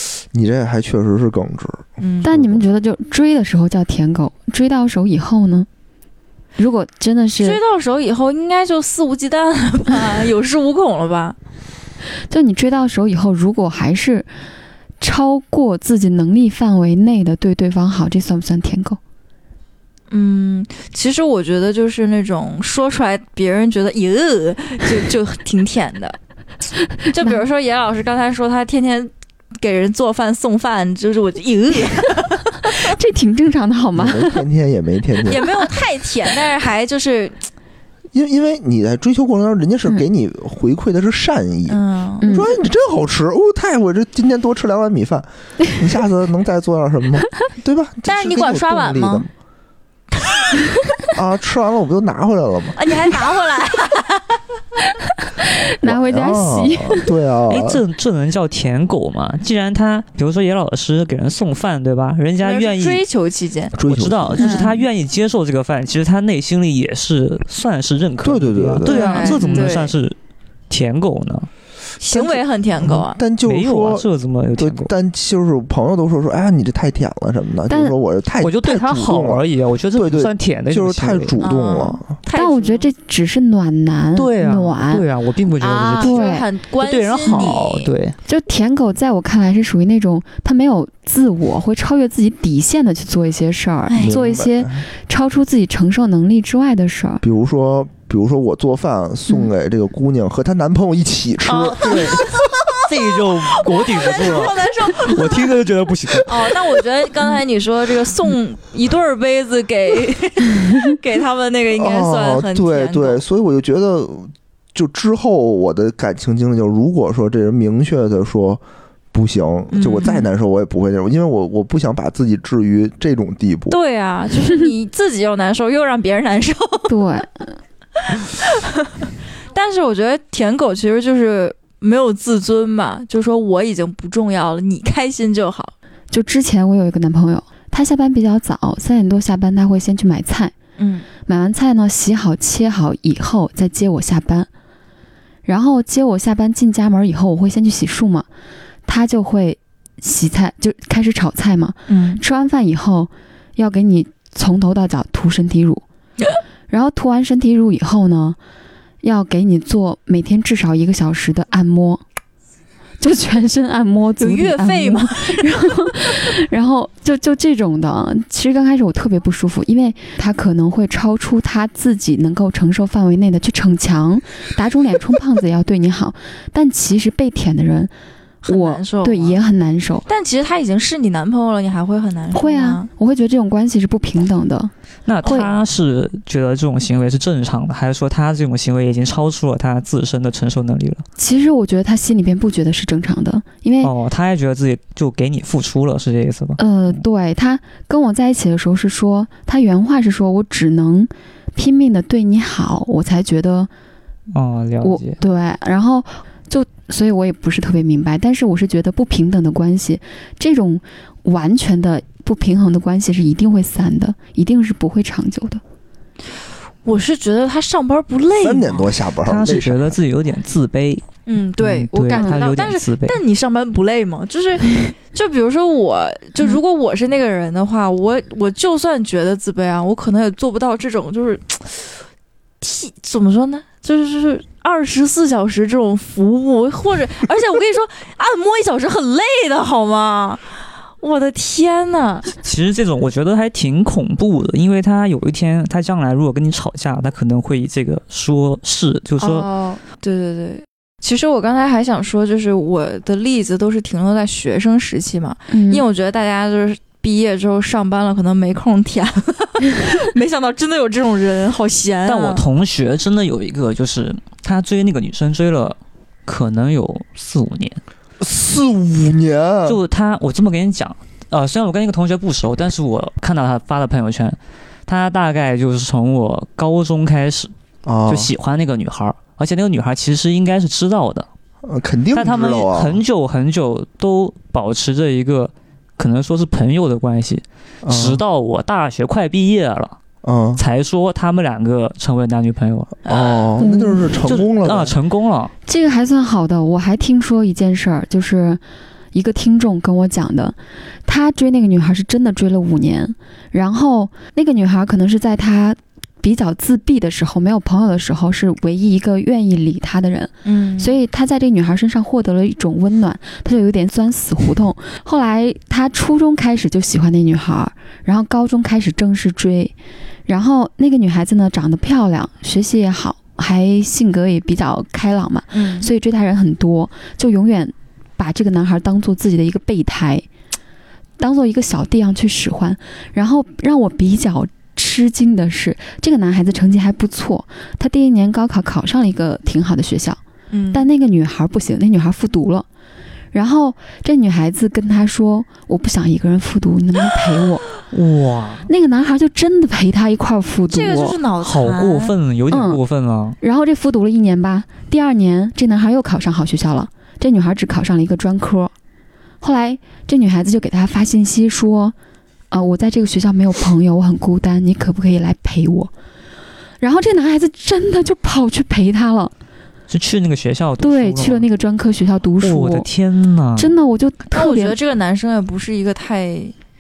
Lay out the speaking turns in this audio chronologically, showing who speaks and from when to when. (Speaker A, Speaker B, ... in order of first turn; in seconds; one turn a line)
Speaker A: 0.3-2.6
Speaker B: 2.0-2.3
Speaker C: 2.2-5.7
Speaker C: 6.6-7.6
Speaker B: 7.4-11.4
Speaker C: 12.3-14.3
Speaker C: 15.0-19.0
Speaker B: 20.1-26.2
Speaker B: 27.1-32.9
Speaker C: 32.8-34.4
Speaker A: 33.9-35.5
Speaker B: 35.2-37.4
Speaker A: 38.1-49.3
Speaker B: 41.7-42.3
Speaker C: 42.2-42.5
Speaker B: 48.1-49.2
Speaker A: 51.1-52.8
Speaker B: 52.8-54.4
Speaker C: 55.2-57.1
Speaker A: 55.8-57.8
Speaker D: 57.5-63.0
Speaker B: 62.4-63.7
Speaker A: 63.7-64.7
Speaker D: 63.8-70.2
Speaker B: 64.4-64.7
Speaker A: 68.2-69.0
Speaker B: 68.8-69.9
Speaker C: 68.9-69.7
Speaker D: 70.7-71.5
Speaker B: 72.0-73.2
Speaker A: 72.1-74.0
Speaker D: 73.4-74.9
Speaker A: 74.5-79.4
Speaker C: 77.7-77.9
Speaker D: 78.4-81.4
Speaker A: 79.9-82.1
Speaker B: 81.4-82.9
Speaker C: 82.3-85.0
Speaker D: 84.2-86.2
Speaker B: 85.6-87.9
Speaker C: 86.0-86.5
Speaker D: 86.8-88.2
Speaker C: 88.2-97.2
Speaker B: 93.9-94.2
Speaker A: 94.0-94.8
Speaker A: 97.2-102.4
Speaker D: 101.5-102.2
Speaker B: 101.5-102.5
Speaker D: 102.8-106.8
Speaker B: 103.7-105.5
Speaker B: 106.2-113.2
Speaker A: 111.7-118.6
Speaker A: 119.1-123.8
Speaker B: 119.7-120.3
Speaker B: 123.7-127.0
Speaker C: 126.9-127.5
Speaker B: 129.5-135.7
Speaker C: 136.1-140.5
Speaker B: 140.8-141.1
Speaker C: 141.2-144.5
Speaker C: 145.4-148.3
Speaker C: 148.8-155.8
Speaker B: 151.9-152.2
Speaker C: 156.7-158.4
Speaker C: 159.0-162.0
Speaker C: 163.0-177.9
Speaker B: 164.2-165.9
Speaker B: 178.4-179.4
Speaker C: 178.5-180.1
Speaker B: 180.1-182.9
Speaker C: 182.3-184.7
Speaker D: 185.1-191.0
Speaker C: 185.2-185.5
Speaker C: 191.2-193.9
Speaker D: 193.8-197.0
Speaker C: 196.6-203.7
Speaker D: 204.3-205.2
Speaker C: 204.8-215.6
Speaker B: 216.8-218.9
Speaker A: 218.4-220.0
Speaker D: 219.2-221.0
Speaker B: 221.3-231.9
Speaker D: 221.6-223.2
Speaker C: 222.1-222.4
Speaker B: 232.6-240.4
Speaker B: 241.0-242.3
Speaker D: 242.4-249.5
Speaker B: 249.2-262.4
Speaker C: 255.5-255.8
Speaker D: 262.1-267.8
Speaker A: 268.2-269.8
Speaker D: 269.6-277.5
Speaker A: 277.9-278.3
Speaker D: 278.1-281.3
Speaker A: 281.6-283.0
Speaker D: 282.1-290.0
Speaker A: 287.8-288.2
Speaker A: 290.2-290.6
Speaker D: 290.6-292.9
Speaker A: 293.0-294.9
Speaker B: 293.1-293.4
Speaker C: 293.6-294.0
Speaker D: 294.2-295.5
Speaker C: 295.6-298.6
Speaker C: 299.1-319.7
Speaker B: 310.4-310.9
Speaker C: 320.3-330.2
Speaker B: 325.5-325.9
Speaker C: 331.2-340.2
Speaker B: 340.5-340.8
Speaker C: 340.7-342.6
Speaker C: 343.3-347.7
Speaker D: 347.9-348.7
Speaker C: 348.7-351.2
Speaker B: 350.7-352.1
Speaker D: 351.4-353.4
Speaker C: 352.5-352.8
Speaker C: 353.4-358.7
Speaker C: 359.4-361.9
Speaker C: 362.5-365.9
Speaker C: 366.8-369.3
Speaker D: 369.9-371.4
Speaker C: 370.8-372.9
Speaker D: 372.4-373.7
Speaker C: 373.6-374.8
Speaker B: 374.3-376.5